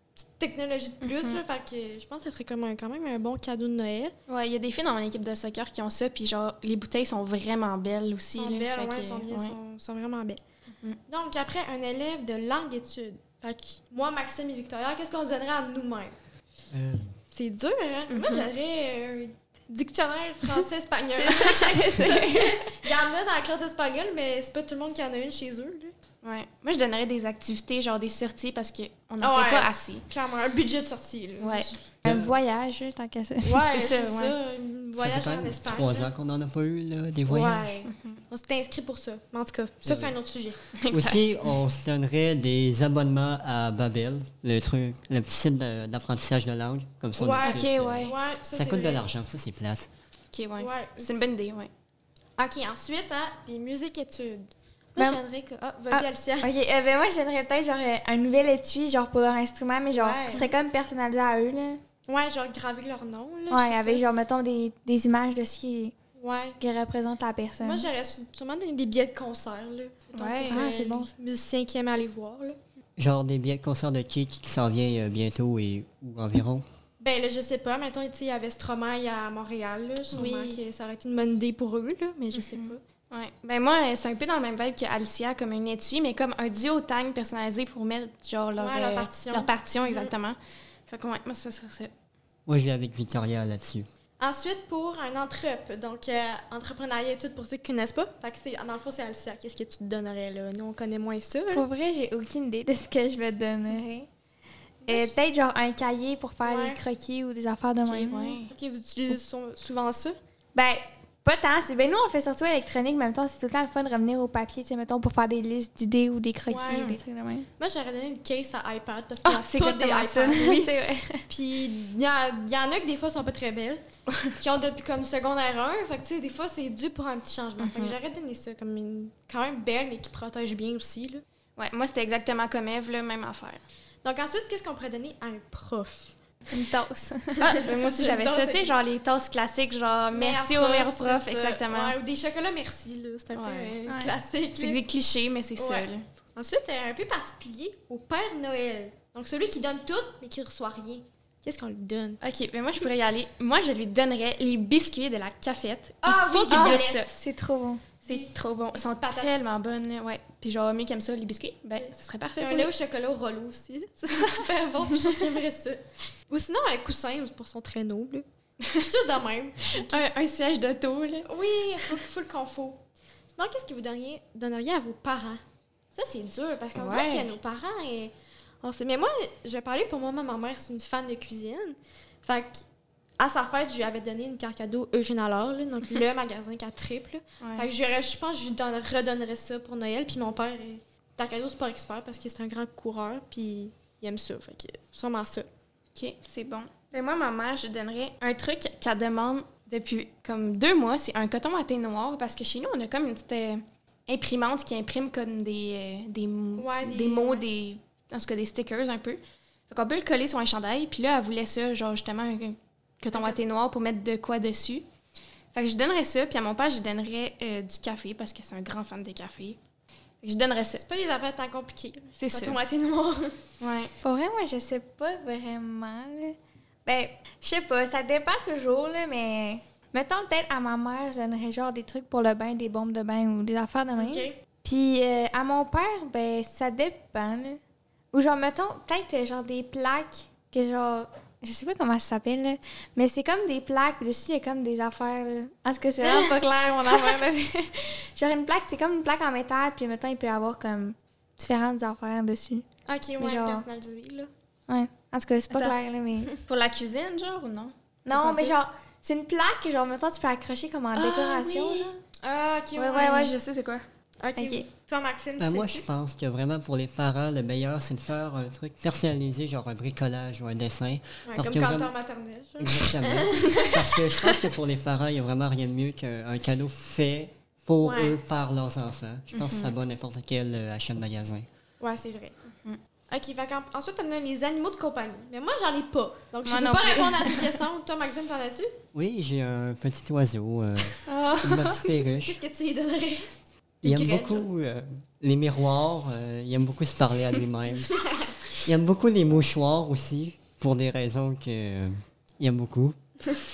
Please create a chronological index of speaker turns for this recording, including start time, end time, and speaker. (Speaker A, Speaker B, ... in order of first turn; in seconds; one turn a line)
Speaker A: 0.2-4.1
Speaker B: 1.0-1.4
Speaker B: 4.3-9.5
Speaker A: 8.4-10.4
Speaker A: 11.1-16.1
Speaker C: 16.7-17.1
Speaker A: 17.3-25.9
Speaker B: 18.1-18.5
Speaker B: 21.2-22.8
Speaker B: 26.2-30.0
Speaker A: 29.2-31.8
Speaker B: 31.4-31.7
Speaker D: 32.0-33.6
Speaker C: 32.0-32.4
Speaker A: 33.4-36.1
Speaker B: 33.7-34.3
Speaker C: 35.0-37.8
Speaker A: 37.3-40.6
Speaker B: 37.9-38.2
Speaker C: 39.8-40.1
Speaker B: 40.7-41.6
Speaker C: 40.9-49.9
Speaker A: 47.2-49.0
Speaker B: 47.3-48.1
Speaker B: 50.3-51.7
Speaker A: 50.6-51.2
Speaker A: 52.4-56.5
Speaker D: 55.9-61.8
Speaker A: 59.9-60.5
Speaker A: 62.1-64.0
Speaker D: 63.5-65.9
Speaker A: 66.2-66.6
Speaker D: 66.6-67.9
Speaker A: 67.6-72.6
Speaker B: 70.1-70.7
Speaker D: 70.1-71.1
Speaker C: 73.0-76.6
Speaker A: 77.0-82.8
Speaker D: 80.1-80.6
Speaker B: 82.3-91.9
Speaker A: 88.6-90.1
Speaker C: 92.5-93.9
Speaker A: 94.2-101.6
Speaker D: 101.5-104.1
Speaker A: 104.8-105.1
Speaker D: 104.9-108.4
Speaker A: 106.4-106.8
Speaker A: 107.9-110.2
Speaker B: 107.9-108.5
Speaker D: 110.5-117.5
Speaker A: 116.5-117.0
Speaker B: 116.7-117.0
Speaker A: 117.6-120.6
Speaker B: 119.2-120.8
Speaker D: 120.3-121.2
Speaker A: 121.3-131.2
Speaker B: 127.6-127.9
Speaker B: 131.6-133.6
Speaker A: 134.0-136.1
Speaker D: 136.5-137.4
Speaker B: 137.4-141.9
Speaker A: 137.4-138.7
Speaker A: 140.1-144.8
Speaker B: 143.3-143.8
Speaker D: 143.9-144.1
Speaker B: 144.5-146.0
Speaker A: 145.6-152.2
Speaker B: 152.2-157.1
Speaker A: 156.0-157.2
Speaker D: 156.5-157.8
Speaker A: 158.0-159.6
Speaker B: 158.0-162.7
Speaker A: 161.8-170.0
Speaker B: 169.7-171.3
Speaker A: 171.2-172.8
Speaker A: 173.3-175.4
Speaker A: 175.9-182.6
Speaker B: 176.7-177.3
Speaker A: 183.2-195.5
Speaker B: 187.4-187.7
Speaker B: 195.9-214.8
Speaker A: 206.6-207.4
Speaker A: 213.1-213.4
Speaker B: 215.5-219.6
Speaker B: 220.2-220.8
Speaker A: 220.8-223.4
Speaker B: 222.2-222.6
Speaker B: 223.6-223.9
Speaker D: 224.0-237.6
Speaker A: 233.9-234.3
Speaker D: 238.1-252.7
Speaker A: 252.9-254.3
Speaker D: 253.2-253.6
Speaker D: 254.7-256.3
Speaker B: 255.5-255.8
Speaker B: 256.4-258.6
Speaker D: 258.1-261.9
Speaker B: 260.9-261.9
Speaker A: 262.2-263.3
Speaker B: 262.8-263.8
Speaker A: 264.2-265.9
Speaker D: 264.4-264.6
Speaker C: 265.4-271.9
Speaker A: 271.2-274.4
Speaker C: 272.6-281.5
Speaker A: 277.8-278.2
Speaker B: 279.3-279.8
Speaker A: 281.8-282.4
Speaker A: 283.1-288.7
Speaker B: 286.4-287.5
Speaker C: 288.9-292.4
Speaker B: 291.1-291.9
Speaker A: 292.2-293.3
Speaker A: 293.8-294.5
Speaker C: 293.8-298.0
Speaker A: 297.9-298.4
Speaker C: 298.6-303.0